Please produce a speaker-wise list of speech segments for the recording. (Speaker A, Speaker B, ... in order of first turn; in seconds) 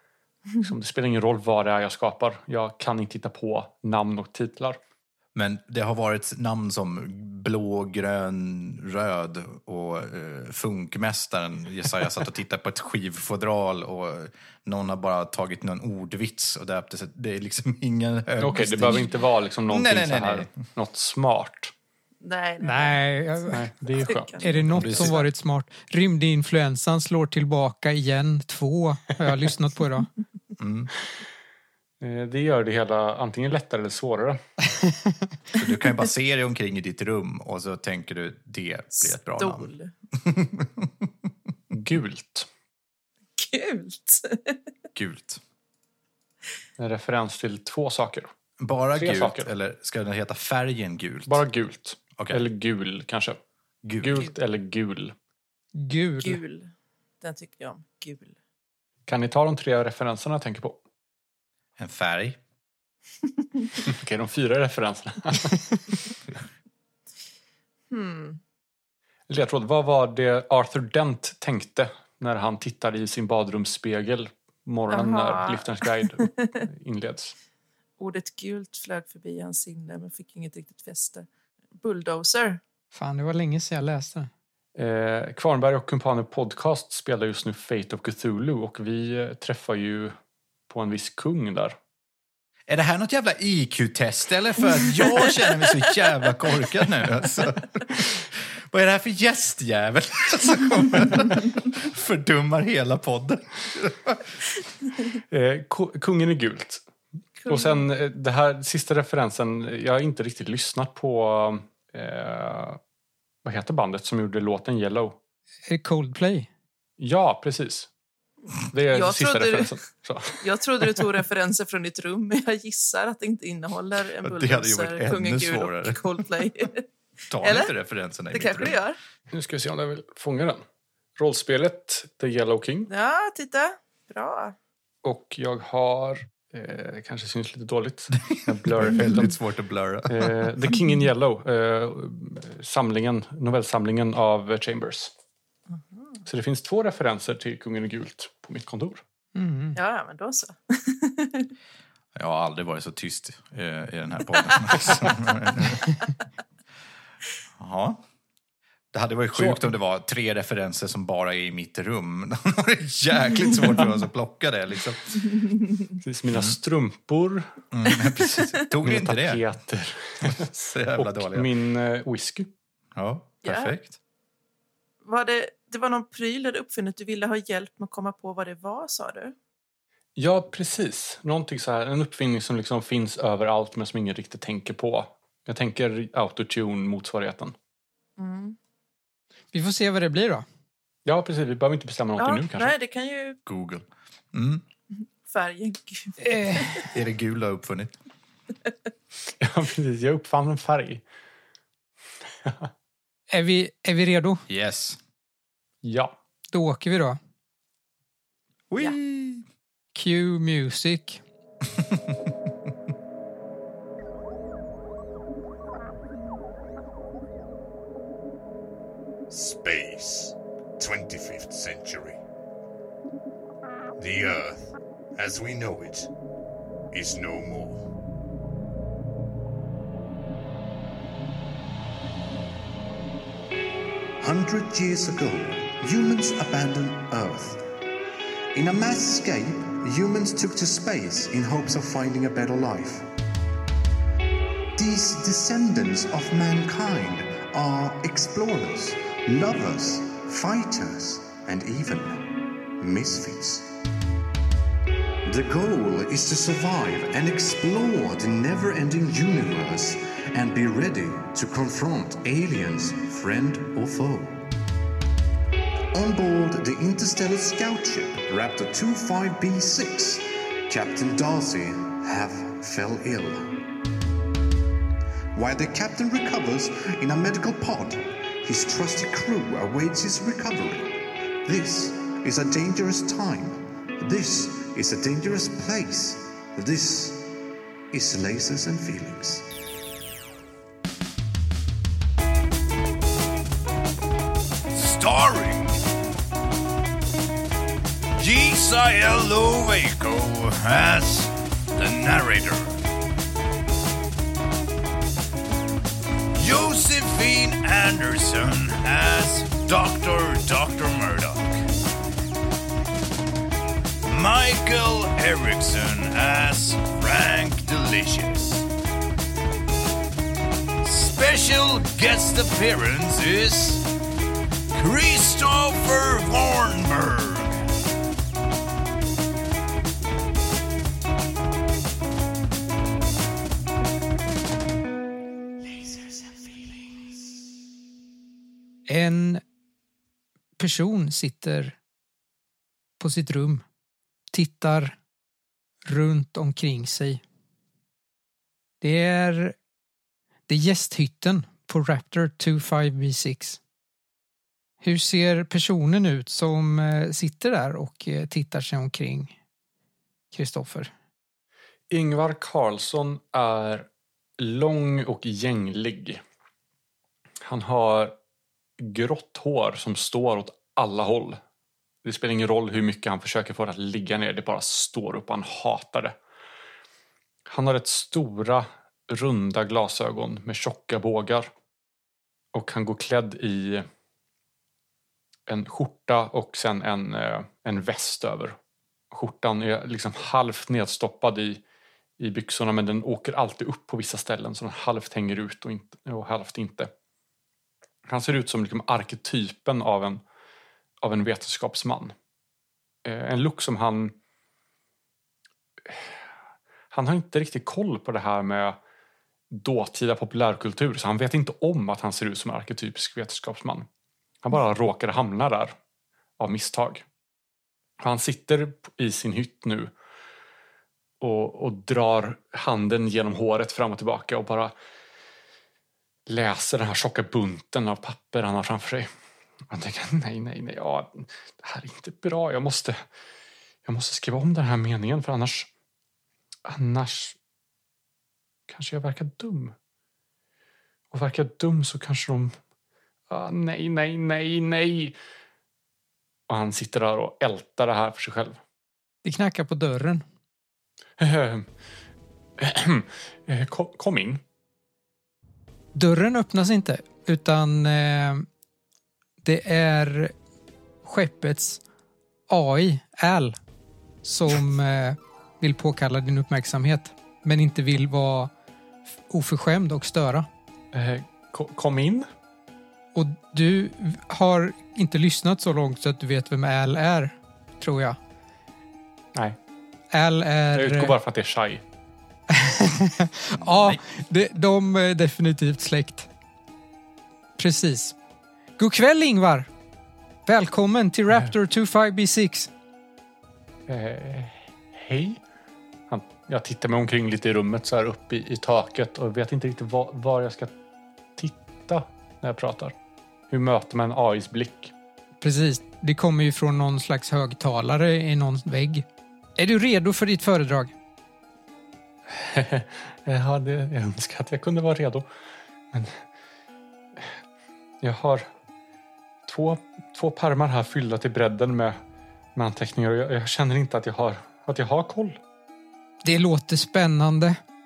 Speaker A: 0.6-4.8, 18.4-21.7, 23.5-25.1, 32.0-34.4, 41.7-42.5, 46.8-48.3, 49.0-49.5, 51.3-53.4, 54.0-55.1, 59.1-60.8, 63.9-65.8, 69.3-77.3, 84.8-90.1, 90.7-91.8, 105.3-106.8, 107.5-112.8, 113.4-115.2, 117.0-117.9, 118.7-121.1, 129.3-130.6, 131.2-132.9, 135.0-139.3, 140.1-145.1, 146.3-149.0, 159.3-159.7, 166.0-167.5, 168.8-172.5, 180.2-187.5, 191.0-192.7, 199.4-201.0, 202.4-202.7, 205.8-206.1, 361.9-363.9, 364.4-366.2, 367.4-368.1, 368.8-371.4, 372.0-376.1, 377.5-381.5, 382.5-383.9, 385.5-388.6, 389.1-391.6, 392.2-396.9, 398.1-400.2, 401.0-402.1, 403.0-404.1, 405.9-406.2, 406.9-408.8, 409.5-413.9, 414.4-415.7, 416.4-417.0, 418.0-419.9, 421.2-424.7, 426.3-429.1, 429.7-433.0, 433.8-435.7, 436.6-437.4, 438.7-439.7, 441.1-442.6, 443.3-445.1, 446.5-448.6, 451.2-451.7, 452.6-454.4, 470.9-472.3, 480.7-481.8, 493.9-495.4, 496.1-500.7, 501.4-502.9, 503.5-504.9, 512.3-515.3, 515.9-516.2, 518.0-518.5, 519.5-522.0, 522.5-525.4
Speaker B: 5.3-19.1, 19.7-20.5, 24.7-25.3, 30.6-30.9, 35.5-41.1, 44.9-45.4, 48.6-51.4, 52.2-52.4, 53.8-54.3, 61.8-62.4, 92.7-104.3, 124.2-126.2, 127.3-128.8, 138.3-140.5, 152.2-155.8, 157.6-158.0, 158.9-165.3, 167.7-169.4, 170.2-171.5, 172.9-173.9, 193.4-194.6, 196.9-197.9, 204.5-205.0, 208.7-209.4, 483.5-484.0
Speaker C: 22.2-24.7, 39.0-39.9, 43.4-44.6, 56.2-58.3, 67.9-68.4, 74.9-76.5, 78.0-81.3, 81.8-82.6, 107.4-107.8, 118.9-119.7, 120.4-126.8, 127.4-127.7, 128.3-129.0, 132.9-134.5, 145.7-146.2, 149.7-151.5, 173.4-173.7, 175.0-179.3, 188.2-188.6, 192.2-193.4, 194.9-196.9
Speaker D: 22.6-23.6, 24.4-30.1, 55.8-56.4, 82.9-84.3, 115.7-116.5, 149.3-149.8, 189.5-190.4, 196.2-196.8, 203.3-204.4, 206.5-207.2, 209.9-211.2, 338.9-339.4, 340.6-341.8, 343.0-343.6, 344.3-345.0, 345.8-347.2, 348.8-349.6, 350.5-353.6, 354.8-359.3, 360.3-360.9, 449.2-450.2, 455.9-458.5, 459.4-460.3, 461.0-461.8, 462.5-463.6, 464.2-468.5, 469.3-470.5, 473.1-478.2, 480.1-481.1, 482.5-486.3, 487.6-488.1, 488.8-489.7, 490.4-492.7, 505.4-509.1, 509.6-510.9, 526.2-527.6
Speaker E: 219.3-222.2, 224.0-226.1, 226.9-227.8, 294.7-295.8, 298.1-302.8, 306.4-311.6, 314.1-318.6, 320.8-323.8, 324.7-327.5
Speaker F: 234.2-237.6, 238.5-243.1, 244.8-253.7, 255.2-264.5, 265.9-273.6, 275.3-287.3, 287.9-289.5